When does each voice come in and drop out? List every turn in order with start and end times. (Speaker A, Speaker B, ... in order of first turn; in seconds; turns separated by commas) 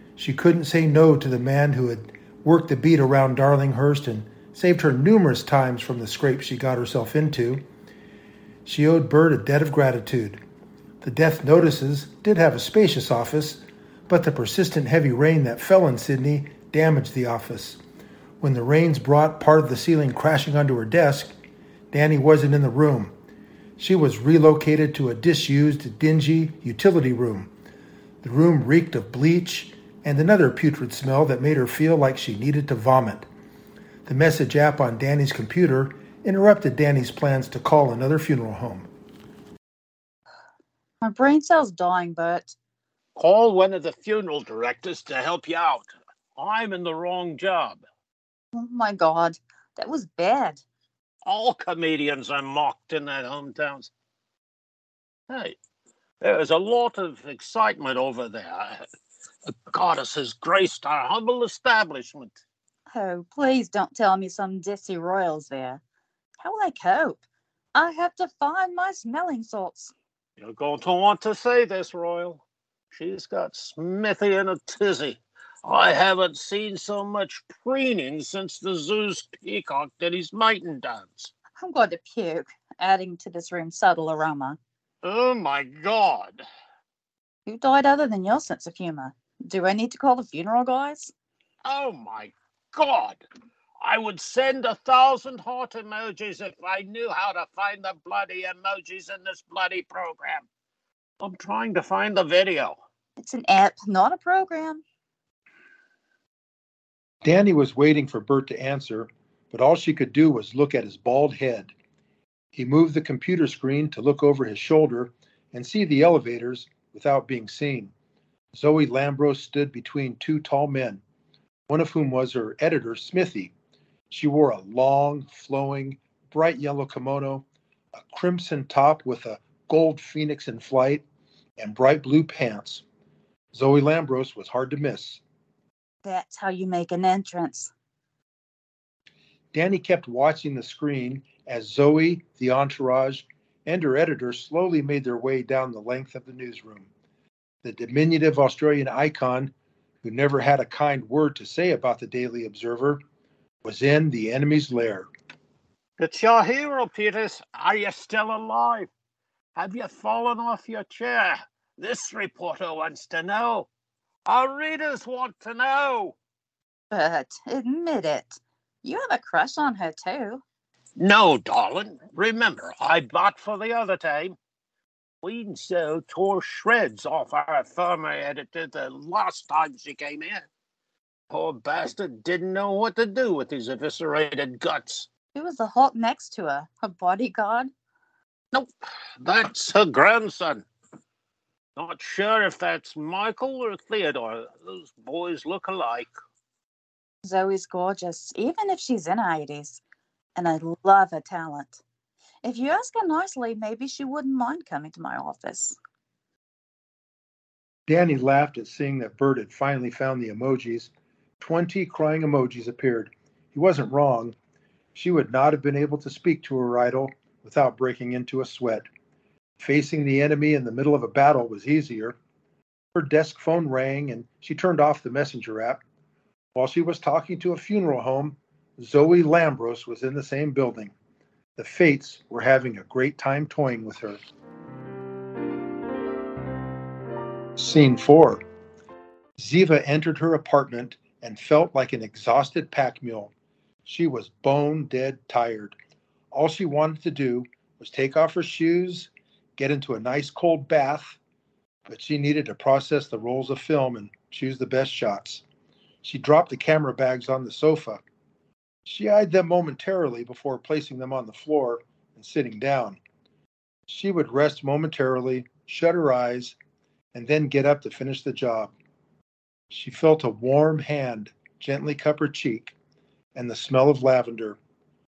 Speaker A: 0.2-7.7, Speaker A: 8.7-10.4, Speaker A: 11.0-17.8, Speaker A: 18.4-21.3, Speaker A: 21.9-23.1, Speaker A: 23.8-27.5, Speaker A: 28.2-33.3, Speaker A: 34.1-38.9, Speaker B: 41.0-42.5, Speaker C: 43.2-47.8, Speaker B: 48.5-50.6, Speaker C: 51.2-53.9, Speaker C: 55.3-55.6, Speaker C: 56.2-58.9, Speaker C: 59.5-62.4, Speaker B: 62.9-65.8, Speaker B: 66.4-67.2, Speaker B: 67.8-69.9, Speaker C: 70.4-81.3, Speaker B: 81.6-84.6, Speaker C: 85.0-86.4, Speaker B: 87.5-91.1, Speaker C: 91.6-93.2, Speaker C: 93.8-100.5, Speaker C: 101.2-102.8, Speaker B: 103.2-104.8, Speaker A: 107.2-111.7, Speaker A: 112.5-117.9, Speaker A: 118.5-121.0, Speaker A: 121.7-123.5, Speaker A: 124.1-131.0, Speaker A: 131.6-132.8, Speaker A: 133.5-135.2, Speaker B: 136.0-137.7, Speaker A: 139.5-146.9, Speaker A: 147.6-149.5, Speaker A: 150.0-153.0, Speaker A: 153.6-155.1, Speaker C: 156.0-158.9, Speaker C: 159.6-163.7, Speaker C: 164.3-166.2, Speaker B: 166.9-170.4, Speaker C: 171.0-174.4, Speaker C: 175.2-180.5, Speaker C: 181.3-185.1, Speaker B: 185.3-187.7, Speaker C: 188.5-190.7, Speaker C: 191.8-196.1, Speaker B: 197.2-199.8, Speaker B: 200.3-201.8, Speaker B: 202.4-205.8, Speaker A: 207.9-214.3, Speaker A: 214.9-218.9, Speaker A: 219.6-222.2, Speaker A: 222.9-225.8, Speaker A: 226.6-230.9, Speaker A: 231.6-234.2, Speaker A: 237.6-238.4, Speaker A: 239.4-243.3, Speaker A: 243.8-245.8, Speaker A: 246.3-251.2, Speaker A: 251.9-255.4, Speaker A: 256.0-258.0, Speaker A: 258.9-263.0, Speaker A: 263.9-266.6, Speaker A: 267.1-268.7, Speaker A: 269.7-272.8, Speaker A: 273.4-274.6